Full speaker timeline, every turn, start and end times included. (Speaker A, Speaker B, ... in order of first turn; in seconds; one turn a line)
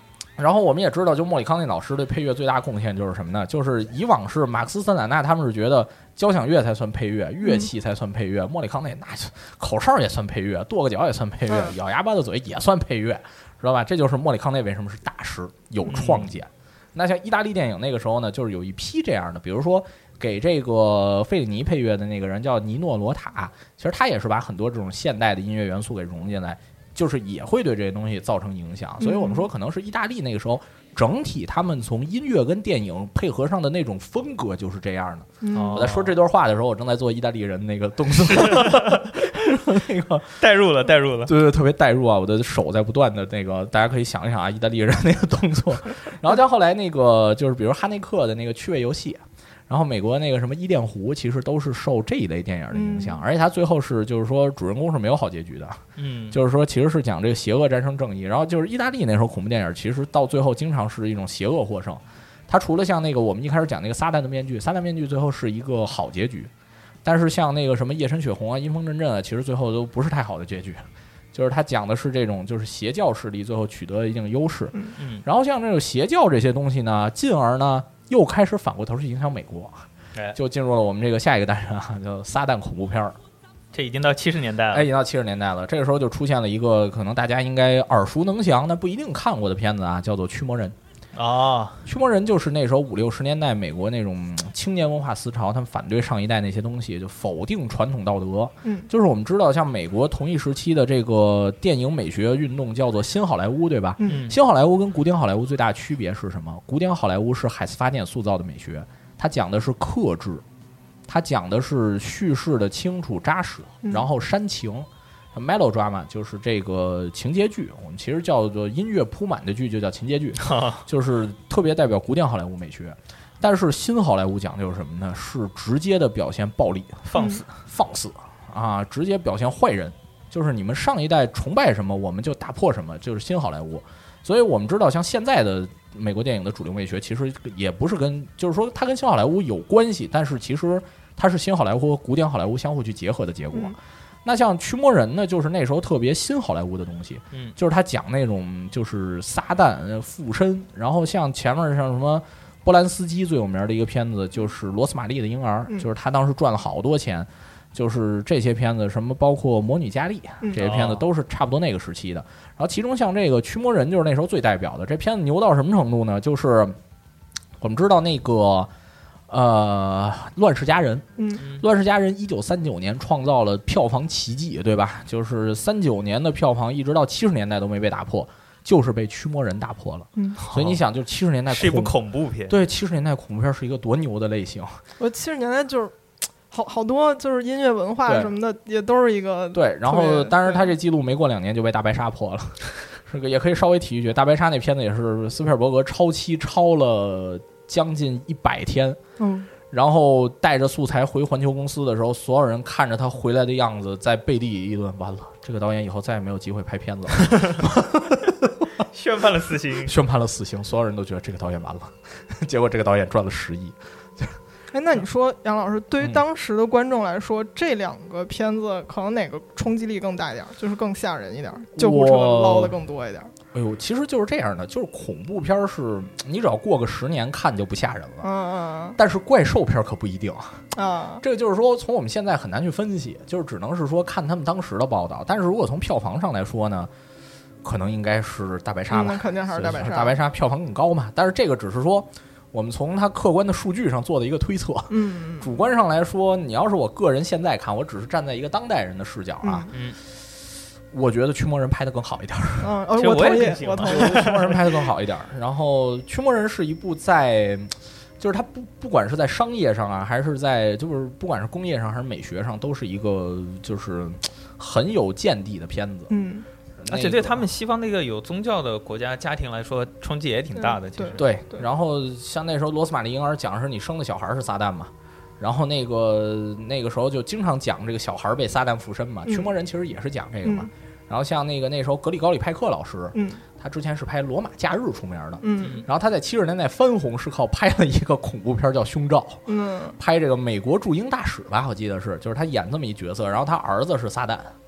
Speaker A: 0.4-40.4
Speaker B: 7.4-7.7
Speaker B: 11.5-11.7
Speaker C: 15.8-16.3
Speaker B: 29.0-29.5
Speaker B: 35.4-35.9
Speaker C: 35.5-36.1
Speaker C: 38.1-39.2
Speaker C: 40.4-41.3
Speaker A: 41.2-66.5
Speaker B: 52.7-53.2
Speaker C: 56.0-56.4
Speaker A: 67.0-70.8
Speaker A: 71.3-83.2
Speaker C: 75.0-75.2
Speaker C: 83.7-84.9
Speaker A: 84.7-90.7
Speaker C: 91.1-91.8
Speaker A: 91.8-110.4
Speaker B: 98.6-98.9
Speaker B: 104.0-104.2
Speaker C: 104.0-104.3
Speaker A: 111.1-127.1
Speaker C: 120.4-120.8
Speaker C: 127.1-127.5
Speaker B: 127.1-127.4
Speaker A: 127.6-166.8
Speaker C: 160.6-161.0
Speaker A: 167.6-168.7
Speaker A: 169.3-171.1
Speaker B: 171.2-171.4
Speaker A: 171.6-181.9
Speaker C: 180.4-180.8
Speaker C: 181.5-182.6
Speaker A: 182.5-184.8
Speaker B: 185.0-185.9
Speaker B: 186.5-190.7
Speaker A: 188.1-188.3
Speaker A: 189.5-199.0
Speaker B: 199.2-199.5
Speaker A: 199.7-208.5
Speaker C: 208.9-209.9
Speaker A: 209.8-214.4
Speaker B: 214.7-223.3
Speaker A: 221.8-222.8
Speaker A: 223.5-228.2
Speaker B: 228.2-229.0
Speaker A: 228.9-230.6
Speaker B: 230.7-231.2
Speaker A: 231.2-236.9
Speaker A: 237.6-249.7
Speaker B: 238.9-240.2
Speaker B: 244.9-245.5
Speaker B: 249.4-249.7
Speaker A: 250.9-252.7
Speaker B: 252.6-254.5
Speaker C: 252.9-254.6
Speaker A: 253.8-266.1
Speaker B: 266.1-266.5
Speaker A: 266.8-267.4
Speaker C: 266.9-271.2
Speaker B: 270.5-271.6
Speaker A: 271.2-289.4
Speaker B: 279.2-279.5
Speaker B: 280.4-280.7
Speaker B: 283.1-283.4
Speaker B: 285.4-285.8
Speaker C: 285.6-285.9
Speaker B: 289.5-290.0
Speaker A: 290.0-294.5